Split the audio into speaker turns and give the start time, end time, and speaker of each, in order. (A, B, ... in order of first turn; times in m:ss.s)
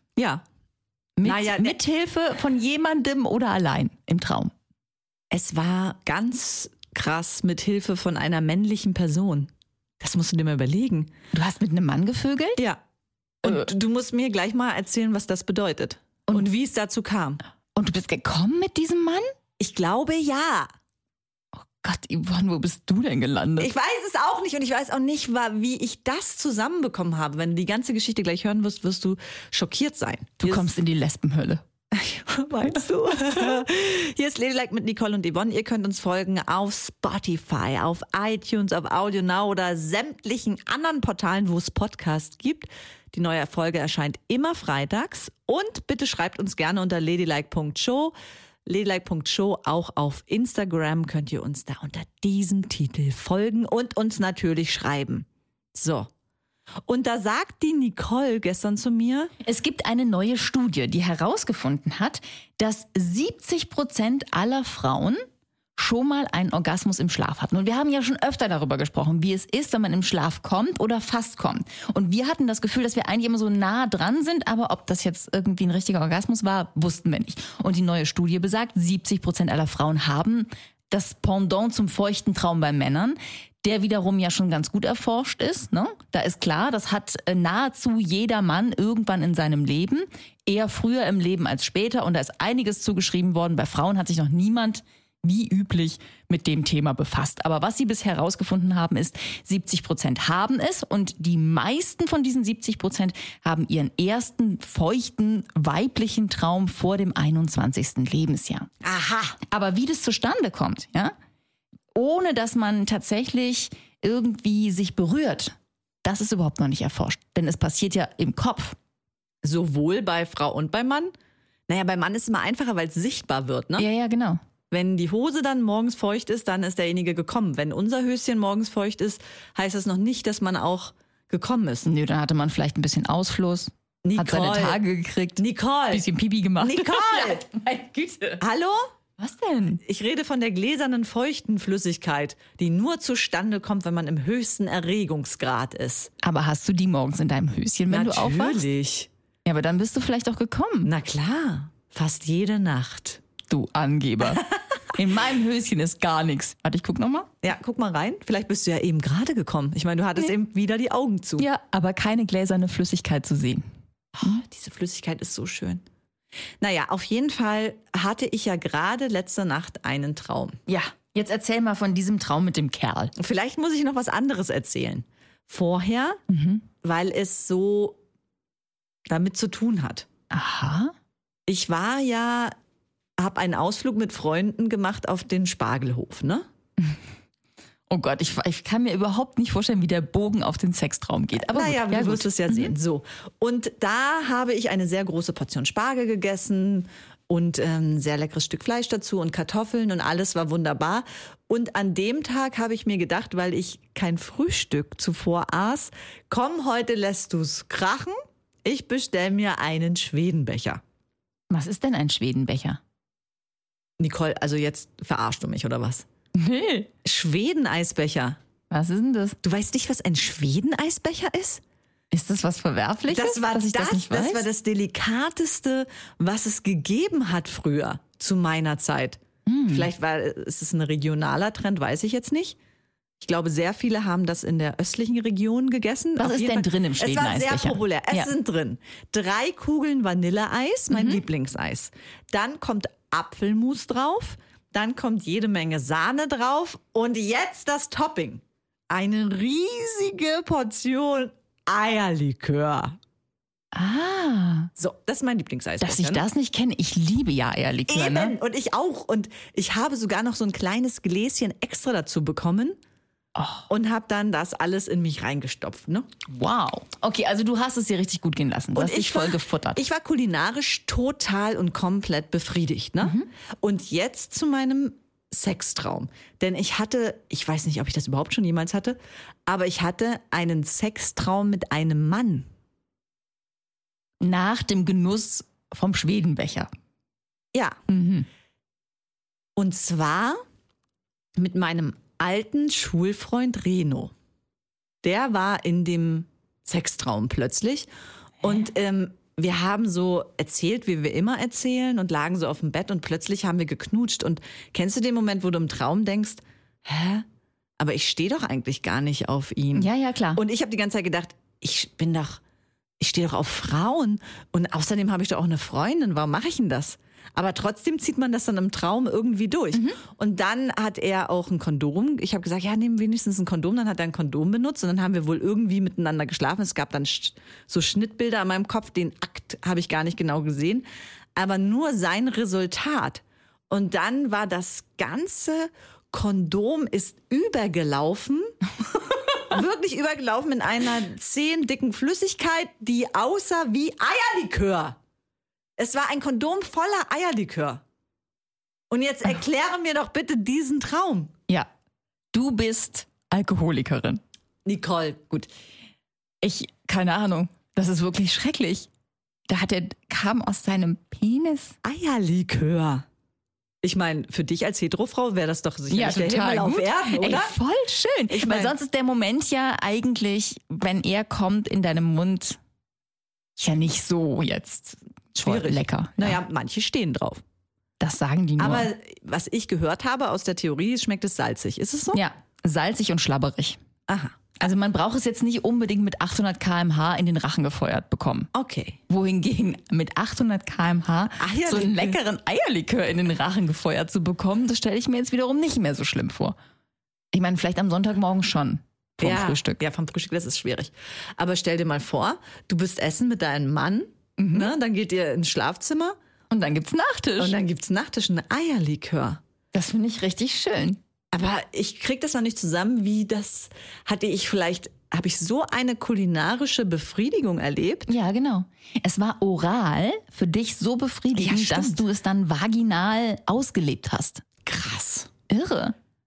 0:00.2-0:00.4 A
0:01.2-0:04.5 B
0:01.2-0:01.8 A
0:05.3-0:09.5 A
0:10.0-0:11.1 A
0:11.3-0:12.6 B
0:13.4-0:17.4 A
0:17.7-0:19.2 B
0:19.6-0:20.7 A
0:21.5-0:23.7 B
0:23.6-0:30.7 A
0:30.4-0:31.6 B
0:31.9-0:48.1 A
0:32.7-0:33.5 B
0:48.6-0:56.1 A
0:56.9-0:59.3 A
0:59.4-1:05.2 B
1:05.8-1:48.7 B
1:48.8-1:49.4 A
1:49.5-1:51.1 B
1:51.9-1:58.8 B
1:59.4-2:01.1 A
2:01.7-2:03.8 A
2:03.8-2:04.4 B
2:04.7-2:11.9 A
2:11.8-2:18.4 B
2:14.0-2:14.8 A
2:15.4-2:16.0 A
2:16.6-2:17.4 A
2:18.4-2:18.8 A
2:19.2-2:19.8 B
2:19.8-2:26.1 A
2:26.2-2:28.6 B
2:27.9-2:29.1 A
2:29.4-2:30.9 B
2:30.8-2:33.2 A
2:33.5-2:37.3 B
2:37.4-2:41.4 A
2:41.4-2:43.6 B
2:44.1-2:45.8 A
2:46.6-2:50.6 A
2:50.7-2:53.1 B
2:53.2-2:56.2 A
2:56.3-2:56.6 B
2:56.8-2:58.0 A
2:59.1-3:00.1 A
3:00.3-3:00.9 B
3:01.5-3:02.5 A
3:03.2-3:06.4 A
3:07.9-3:12.8 B
3:11.4-3:30.8 A
3:31.5-3:32.8 B
3:34.0-3:36.0 A
3:36.4-3:36.9 B
3:37.0-3:38.4 A
3:38.7-3:39.4 B
3:39.4-3:41.6 A
3:42.1-3:44.5 B
3:43.1-3:52.6 A
3:49.4-3:49.9 B
3:53.2-4:13.0 A
3:56.2-3:58.3 B
4:00.9-4:01.2 B
4:13.7-4:14.7 B
4:14.8-4:16.2 A
4:15.8-4:18.4 B
4:17.9-4:22.8 A
4:23.4-4:23.7 B
4:23.7-4:26.1 A
4:26.3-4:29.8 B
4:28.7-4:42.5 A
4:33.0-4:33.3 B
4:44.2-4:46.7 B
4:47.9-4:48.3 B
4:49.6-4:50.4 A
4:51.4-4:54.1 A
4:55.0-4:57.9 A
4:58.4-5:07.2 A
5:07.8-5:12.4 A
5:09.7-5:10.4 B
5:13.0-5:38.5 A
5:19.7-5:20.0 B
5:39.5-5:45.0 A
5:45.8-5:47.8 A
5:48.9-5:51.3 A
5:52.3-5:54.2 B
5:54.6-5:55.3 A
5:56.4-5:58.9 B
5:59.5-6:01.8 B
6:01.8-6:03.0 A
6:03.8-6:07.6 A
6:05.9-6:12.6 B
6:08.3-6:08.8 A
6:13.6-6:16.4 B
6:15.4-6:17.4 A
6:18.0-6:18.9 B
6:18.6-6:22.2 A
6:22.1-6:23.8 B
6:24.1-6:24.5 A
6:24.6-6:28.5 B
6:28.5-6:29.0 A
6:29.1-6:36.6 B
6:31.4-6:32.2 A
6:37.3-6:39.8 B
6:39.2-6:46.1 A
6:44.4-6:44.7 B
6:46.5-6:47.6 B
6:47.4-6:49.4 A
6:49.7-6:51.0 B
6:51.3-6:58.1 A
6:58.1-7:04.4 B
7:01.3-7:02.0 A
7:04.6-7:05.3 A
7:05.5-7:05.9 B